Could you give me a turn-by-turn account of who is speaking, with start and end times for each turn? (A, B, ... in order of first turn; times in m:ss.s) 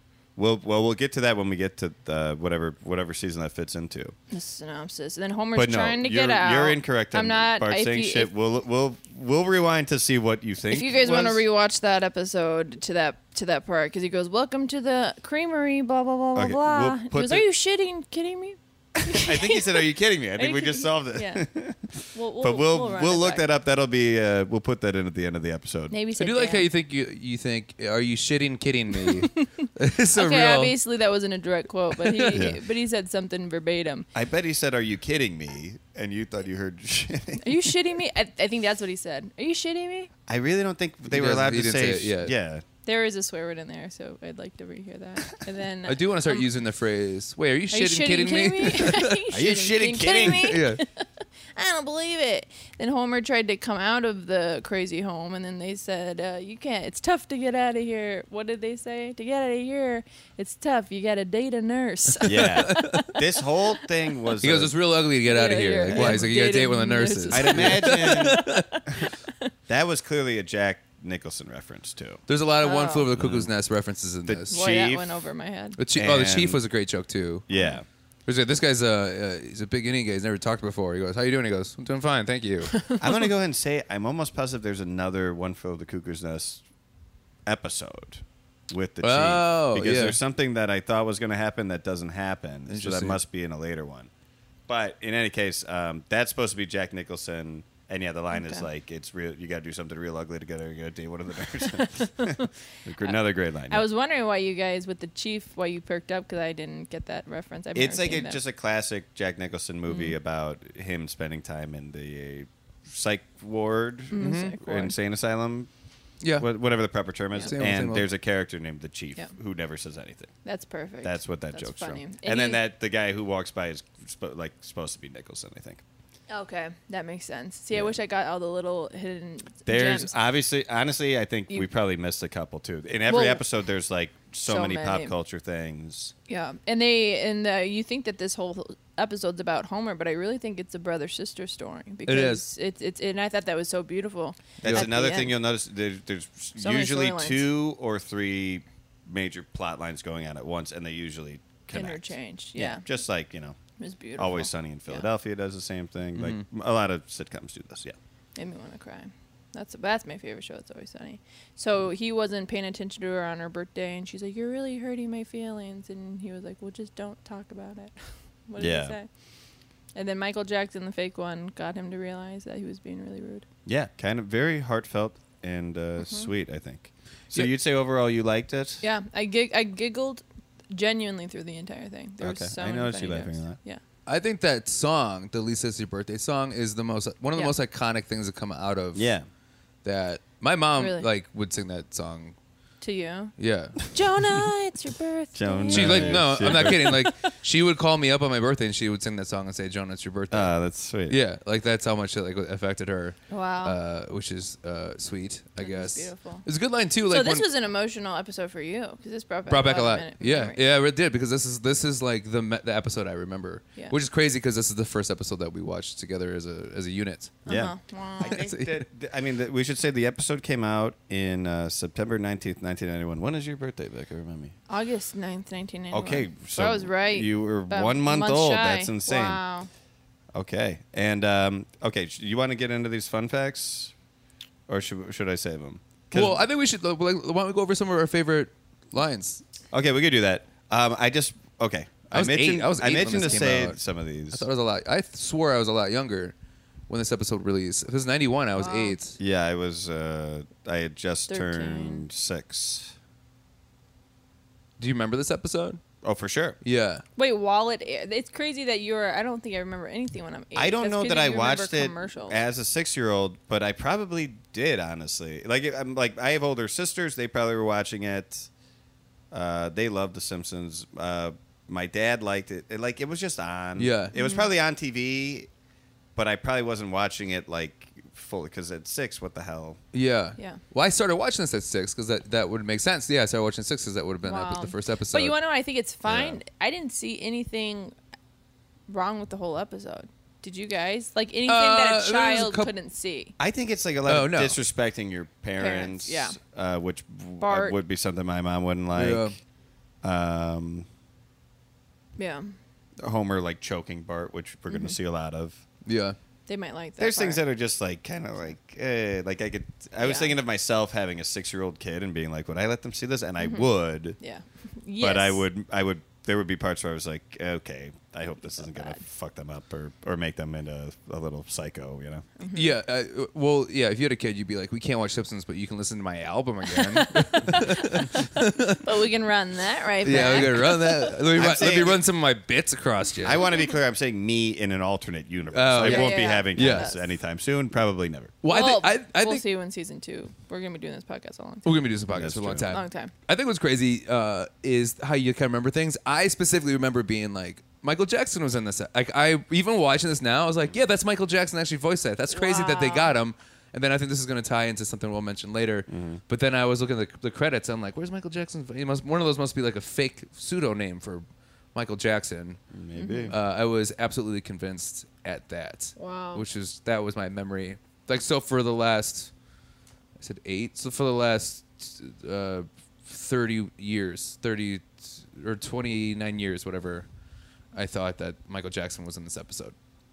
0:00.4-0:04.1 A
0:04.3-0:08.3 B
0:05.5-0:11.4 A
0:10.7-0:21.4 B
0:16.3-0:17.4 A
0:19.0-0:25.9 A
0:22.1-0:23.4 B
0:25.9-0:26.6 B
0:26.2-0:30.8 C
0:29.2-0:34.1 B
0:32.0-0:32.4 C
0:32.3-0:32.6 A
0:34.1-0:37.7 A
0:37.4-0:40.1 B
0:40.3-0:42.6 A
0:41.1-0:42.3 C
0:42.8-0:46.5 B
0:45.8-0:49.2 C
0:47.7-1:03.2 B
0:49.3-0:50.6 A
0:50.2-0:50.8 C
1:02.2-1:04.7 A
1:02.3-1:03.1 C
1:04.4-1:08.6 C
1:05.2-1:09.5 B
1:05.9-1:06.3 A
1:07.3-1:08.4 A
1:09.7-1:12.2 A
1:12.3-1:14.5 C
1:12.6-1:13.1 B
1:13.1-1:13.5 A
1:14.2-1:15.1 A
1:14.5-1:15.8 B
1:15.8-1:17.4 C
1:15.9-1:16.6 A
1:17.5-1:17.8 A
1:17.5-1:17.8 B
1:18.2-1:22.8 C
1:22.8-1:23.0 B
1:23.0-1:26.6 A
1:27.4-1:34.1 A
1:29.0-1:30.2 C
1:32.7-1:33.2 C
1:34.7-1:43.8 A
1:38.3-1:38.6 B
1:41.6-1:43.2 B
1:43.7-1:48.4 B
1:47.7-1:55.7 A
1:49.9-1:50.1 B
1:54.1-1:54.9 B
1:54.2-1:54.5 C
1:56.2-1:56.5 C
1:56.4-2:00.3 A
1:57.4-1:58.0 C
2:00.4-2:02.6 B
2:01.0-2:05.8 A
2:06.3-2:10.1 B
2:09.6-2:16.1 A
2:13.1-2:13.4 B
2:14.4-2:15.1 B
2:16.3-2:25.4 B
2:22.1-2:22.4 C
2:24.6-2:33.6 A
2:26.6-2:27.5 B
2:31.7-2:32.8 B
2:33.8-2:35.0 B
2:34.2-2:38.0 A
2:36.2-2:36.4 C
2:38.4-2:49.1 B
2:48.6-2:48.9 A
2:49.9-2:53.4 B
2:53.6-2:58.8 A
2:56.0-2:56.3 B
2:58.8-3:03.8 B
3:02.2-3:03.6 A
3:04.0-3:09.1 C
3:08.9-3:09.2 A
3:09.8-3:12.3 C
3:10.8-3:11.1 B
3:12.8-3:13.3 B
3:13.4-3:13.9 C
3:13.9-3:17.1 B
3:15.3-3:17.1 A
3:15.7-3:20.5 C
3:20.3-3:21.2 A
3:21.1-3:27.5 C
3:23.3-3:23.8 B
3:25.6-3:26.4 B
3:27.1-3:30.6 B
3:29.5-3:37.4 C
3:37.4-3:38.4 B
3:37.4-3:44.5 A
3:38.2-3:38.8 C
3:44.7-3:49.7 B
3:45.9-3:49.4 A
3:50.3-3:53.9 A
3:54.7-3:56.4 A
3:56.1-3:59.4 C
3:59.7-4:04.4 A
4:02.1-4:03.8 C
4:04.3-4:06.3 C
4:06.9-4:09.2 C
4:08.6-4:09.0 B
4:09.2-4:12.9 A
4:11.3-4:12.1 B
4:14.8-4:15.8 C
4:16.0-4:16.6 A
4:16.6-4:17.0 C
4:17.2-4:22.4 B
4:20.5-4:28.5 A
4:29.3-4:35.5 A
4:33.8-4:34.1 C
4:34.1-4:34.5 B
4:36.2-4:39.8 A
4:39.9-4:45.3 C
4:44.2-4:47.9 B
4:46.0-4:46.4 A
4:48.9-4:53.3 B
4:51.5-4:52.7 C
4:53.4-4:59.4 A
4:54.1-4:54.6 C
4:55.6-4:56.4 B
4:57.4-4:57.8 B
4:58.9-4:59.3 C
5:00.0-5:00.9 A
5:02.2-5:02.5 B
5:03.0-5:05.6 A
5:04.7-5:04.9 B
5:05.8-5:06.2 C
5:06.5-5:07.4 B
5:07.0-5:14.2 A
5:10.0-5:10.3 B
5:13.4-5:15.4 B
5:15.0-5:22.2 A
5:18.6-5:19.0 B
5:22.4-5:22.7 B
5:22.5-5:28.8 C
5:26.7-5:28.0 B
5:28.8-5:31.2 B
5:30.0-5:33.4 C
5:31.3-5:32.0 A
5:33.2-5:38.3 A
5:33.4-5:33.7 B
5:35.5-5:36.9 C
5:35.8-5:37.1 B
5:38.4-5:39.4 C
5:38.5-5:41.9 B
5:41.6-6:01.2 C
5:42.1-5:42.7 A
5:42.6-5:43.1 B
5:52.3-5:53.1 B
5:55.9-5:56.2 A
6:01.7-6:02.6 C
6:02.7-6:03.4 A
6:03.0-6:03.3 B
6:03.3-6:09.3 C
6:06.0-6:06.4 B
6:10.2-6:17.0 C
6:17.7-6:19.7 C